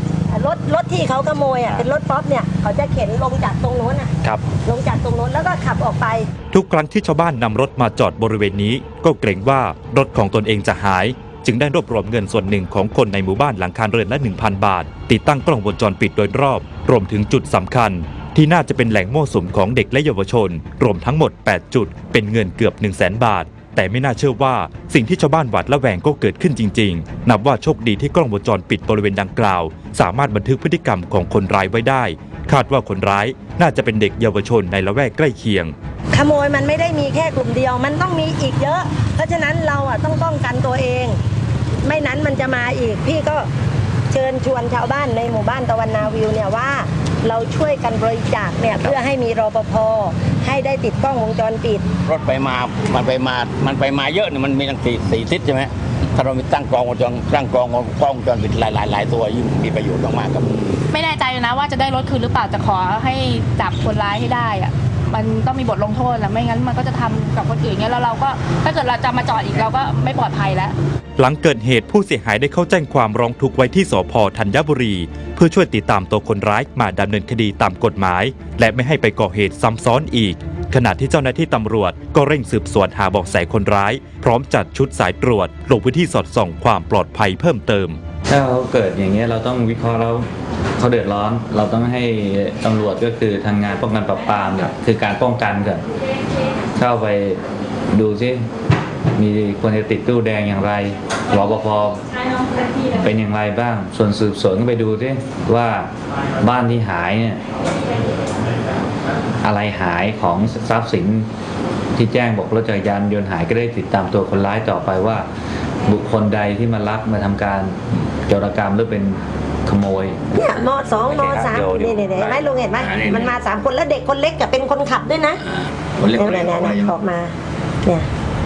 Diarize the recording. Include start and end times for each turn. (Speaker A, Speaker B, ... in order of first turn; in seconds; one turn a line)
Speaker A: 0.3-6.3
Speaker B: 6.5-35.7
Speaker A: 36.1-41.2
Speaker A: 41.8-43.5
Speaker A: 44.1-51.9
Speaker C: 52.0-60.8
Speaker D: 60.9-70.7
Speaker B: 71.2-88.0
Speaker E: 88.3-95.8
Speaker E: 96.8-98.4
Speaker E: 99.2-102.0
Speaker E: 102.9-107.4
Speaker E: 109.4-111.3
Speaker E: 112.0-115.3
Speaker E: 115.8-120.2
Speaker A: 120.3-125.4
Speaker E: 121.1-122.1
Speaker C: 122.3-123.4
Speaker C: 125.4-127.0
Speaker A: 126.0-128.1